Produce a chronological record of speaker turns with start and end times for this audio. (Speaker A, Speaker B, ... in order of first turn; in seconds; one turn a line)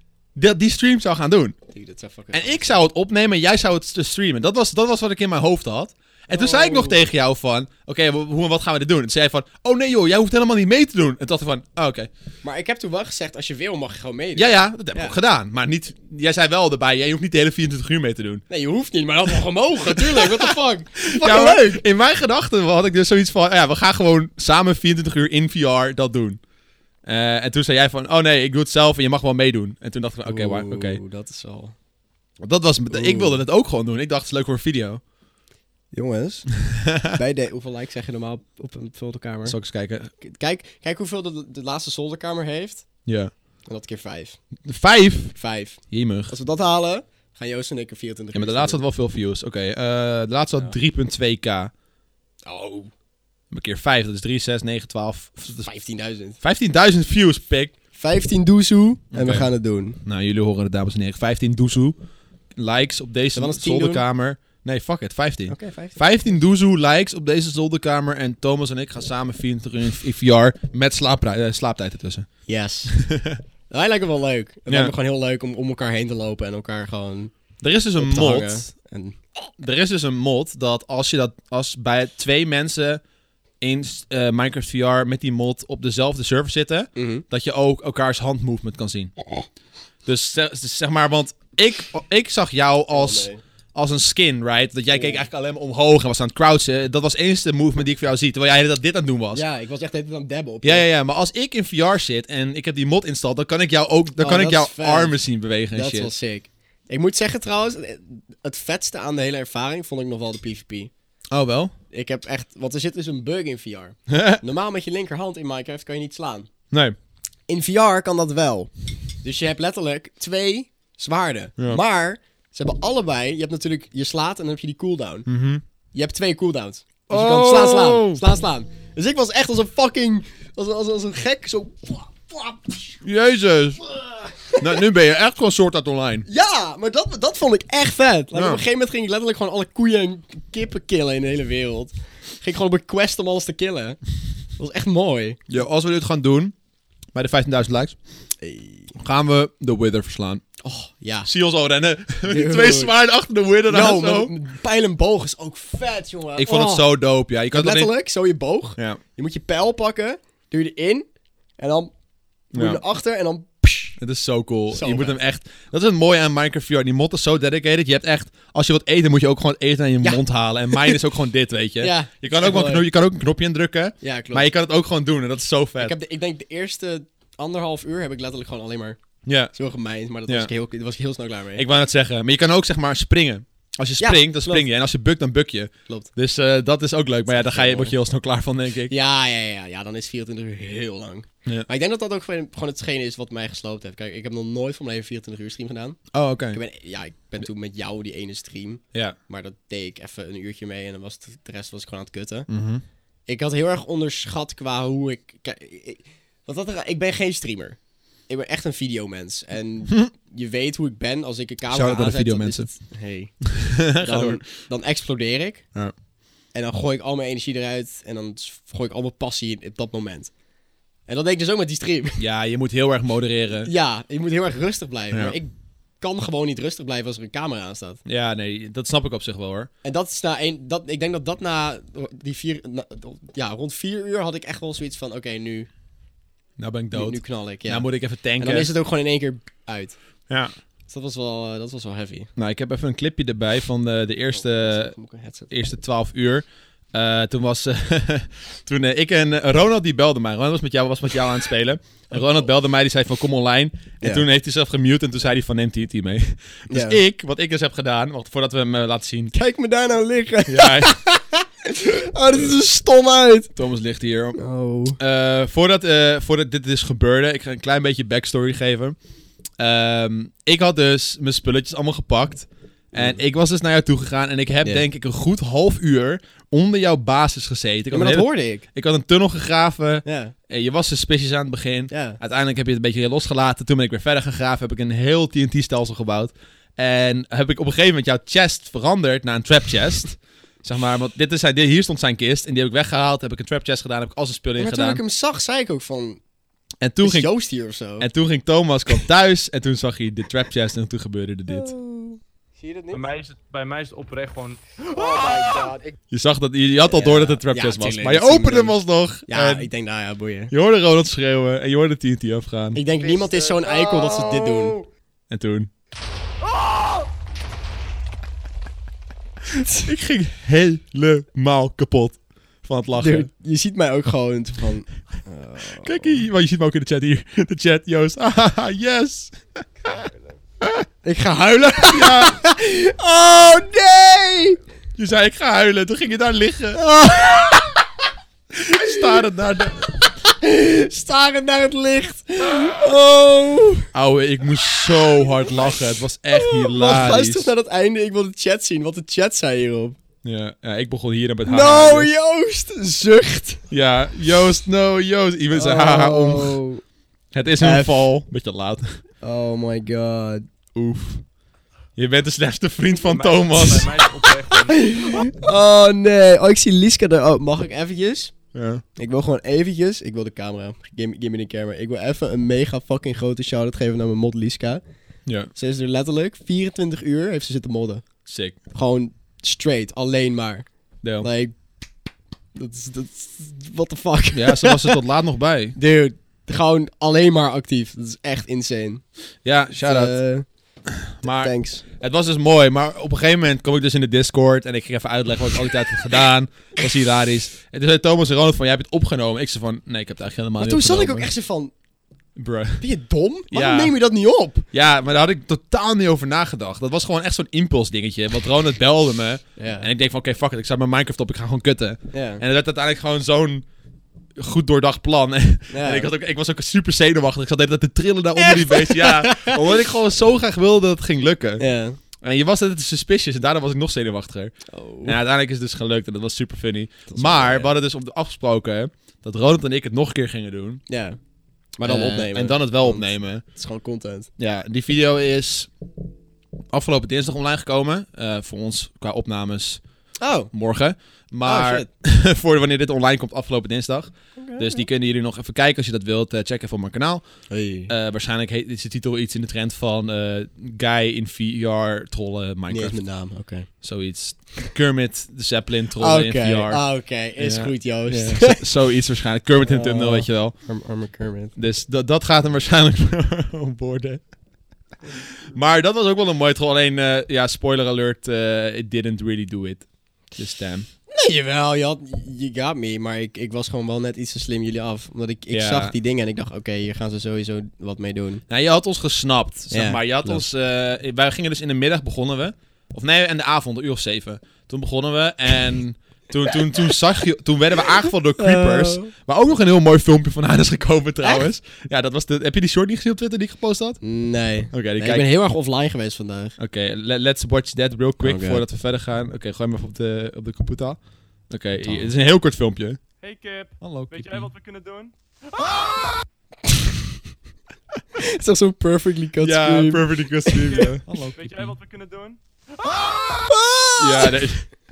Speaker A: 0.3-1.5
Speaker B: 1.7-2.8
Speaker A: 2.3-12.1
Speaker B: 6.3-7.0
Speaker B: 12.4-15.2
Speaker A: 14.3-18.4
Speaker B: 18.5-21.8
Speaker A: 19.9-26.4
Speaker A: 27.1-31.0
Speaker B: 30.2-31.7
Speaker A: 32.4-35.0
Speaker B: 32.9-33.4
Speaker B: 35.9-39.6
Speaker A: 36.6-37.1
Speaker A: 39.4-40.1
Speaker B: 40.2-42.9
Speaker A: 43.0-43.3
Speaker B: 43.6-44.4
Speaker A: 44.6-45.4
Speaker B: 45.3-48.8
Speaker A: 45.9-46.3
Speaker A: 48.3-51.7
Speaker B: 52.4-52.9
Speaker A: 53.5-55.7
Speaker B: 55.6-56.4
Speaker A: 56.4-57.7
Speaker B: 57.9-60.0
Speaker A: 59.1-59.5
Speaker A: 60.0-62.0
Speaker A: 62.5-72.3
Speaker B: 63.3-64.0
Speaker B: 65.5-66.0
Speaker B: 72.5-73.0
Speaker A: 72.9-73.4
Speaker B: 73.7-77.3
Speaker A: 74.7-74.9
Speaker A: 77.6-78.7
Speaker B: 78.0-79.2
Speaker A: 79.6-83.0
Speaker A: 83.6-89.1
Speaker B: 87.0-87.2
Speaker A: 90.0-99.4
Speaker B: 92.9-93.4
Speaker B: 94.9-95.2
Speaker B: 99.3-100.8
Speaker A: 100.6-106.1
Speaker B: 104.2-105.2
Speaker B: 105.7-110.9
Speaker A: 111.3-111.7
Speaker B: 111.9-116.5
Speaker A: 114.1-114.4
Speaker B: 117.5-125.3
Speaker A: 125.2-125.6
Speaker B: 125.9-133.0
Speaker A: 127.1-128.2
Speaker A: 133.0-133.9
Speaker B: 134.0-134.9
Speaker A: 134.5-136.3
Speaker B: 136.2-144.0
Speaker A: 138.3-138.6
Speaker B: 144.6-145.4
Speaker A: 145.5-146.5
Speaker A: 147.1-148.0
Speaker B: 148.4-148.9
Speaker A: 148.9-150.4
Speaker B: 150.6-151.3
Speaker A: 151.2-154.3
Speaker B: 152.2-152.9
Speaker B: 153.7-156.9
Speaker A: 156.3-157.9
Speaker B: 157.5-161.1
Speaker B: 161.6-161.9
Speaker B: 162.5-164.0
Speaker A: 162.5-162.8
Speaker A: 164.0-175.9
Speaker B: 164.7-165.2
Speaker B: 170.0-171.0
Speaker B: 171.8-172.8
Speaker B: 174.0-174.5
Speaker B: 175.8-179.0
Speaker A: 179.2-179.5
Speaker B: 179.5-181.6
Speaker A: 181.5-188.9
Speaker B: 184.0-184.7
Speaker B: 187.3-187.9
Speaker B: 188.9-202.5
Speaker A: 196.1-196.6
Speaker A: 202.5-202.8
Speaker B: 203.3-215.7
Speaker A: 211.7-212.7
Speaker A: 213.4-214.4
Speaker B: 216.5-220.3
Speaker B: 221.1-222.2
Speaker A: 222.2-223.7
Speaker B: 223.6-228.0
Speaker A: 228.1-229.7
Speaker B: 229.8-235.7
Speaker A: 236.6-238.7
Speaker B: 236.9-239.9
Speaker A: 240.3-240.5
Speaker B: 240.9-242.3
Speaker A: 242.3-244.9
Speaker B: 244.3-245.5
Speaker A: 245.5-259.3
Speaker B: 256.7-257.0
Speaker B: 259.3-263.5
Speaker A: 260.4-261.0
Speaker A: 263.6-264.4
Speaker B: 264.4-265.0
Speaker A: 265.0-269.0
Speaker A: 269.6-295.0
Speaker B: 277.9-278.6
Speaker B: 280.0-280.3
Speaker B: 281.9-282.2
Speaker B: 294.6-296.2
Speaker A: 296.8-297.3
Speaker B: 297.0-298.1
Speaker A: 298.0-301.7
Speaker B: 301.5-303.0
Speaker C: 302.9-304.6
Speaker B: 304.8-305.9
Speaker A: 306.1-309.7
Speaker B: 306.9-308.8
Speaker B: 309.3-310.5
Speaker A: 310.5-312.8
Speaker B: 312.7-314.9
Speaker A: 315.3-315.7
Speaker A: 319.5-323.3
Speaker B: 323.0-326.2
Speaker A: 325.8-330.1
Speaker B: 331.0-334.6
Speaker A: 331.9-332.4
Speaker A: 335.0-336.9
Speaker B: 336.7-337.8
Speaker A: 338.5-339.9
Speaker B: 338.8-339.2
Speaker B: 340.2-343.9
Speaker A: 343.9-347.5
Speaker B: 346.3-350.0
Speaker A: 350.2-352.1
Speaker B: 351.4-353.6
Speaker A: 353.7-356.6
Speaker B: 355.5-356.8
Speaker A: 357.3-359.0
Speaker B: 357.6-358.1
Speaker B: 359.2-360.4
Speaker A: 360.7-361.2
Speaker A: 361.9-363.9
Speaker C: 362.9-365.2
Speaker B: 364.6-368.4
Speaker A: 368.5-368.8
Speaker B: 368.9-374.8
Speaker A: 375.2-375.5
Speaker B: 375.5-378.0
Speaker A: 378.2-378.6
Speaker B: 378.7-380.7
Speaker A: 381.0-381.3
Speaker B: 381.2-381.6
Speaker B: 382.5-385.0
Speaker A: 384.3-385.8
Speaker B: 385.8-389.0
Speaker A: 389.4-390.2
Speaker B: 389.8-390.4
Speaker A: 390.9-401.3
Speaker B: 391.2-391.8
Speaker B: 400.6-401.7
Speaker A: 402.4-402.9
Speaker B: 402.8-404.6
Speaker A: 403.5-403.9
Speaker A: 404.7-413.6
Speaker B: 409.6-409.9
Speaker B: 412.1-412.4
Speaker A: 414.4-424.5
Speaker B: 415.7-416.1
Speaker B: 418.4-419.6
Speaker B: 421.6-422.0
Speaker B: 424.7-425.2
Speaker A: 425.0-430.8
Speaker B: 427.1-427.7
Speaker B: 430.9-431.2
Speaker B: 431.8-434.3
Speaker A: 431.8-433.4
Speaker A: 434.4-435.7
Speaker A: 436.7-439.8
Speaker B: 440.2-440.5
Speaker A: 440.5-447.2
Speaker B: 441.4-441.9
Speaker B: 444.4-444.8
Speaker B: 447.5-447.9
Speaker A: 447.9-453.0
Speaker B: 452.7-453.7
Speaker A: 453.8-456.8
Speaker B: 456.0-458.6
Speaker A: 457.4-460.6
Speaker B: 459.6-461.5
Speaker A: 461.5-464.3
Speaker A: 465.4-470.9
Speaker B: 471.1-478.4
Speaker A: 475.5-475.9
Speaker A: 478.5-494.0
Speaker B: 479.7-480.4
Speaker B: 488.4-489.1
Speaker B: 494.0-496.6
Speaker A: 494.7-495.2
Speaker A: 496.6-503.0
Speaker B: 498.2-498.6
Speaker B: 501.8-502.1
Speaker C: 503.2-505.1
Speaker A: 503.8-504.5
Speaker B: 506.7-506.9
Speaker B: 508.2-510.9
Speaker A: 509.4-511.7
Speaker C: 510.7-513.0
Speaker B: 513.3-514.4
Speaker A: 514.0-514.7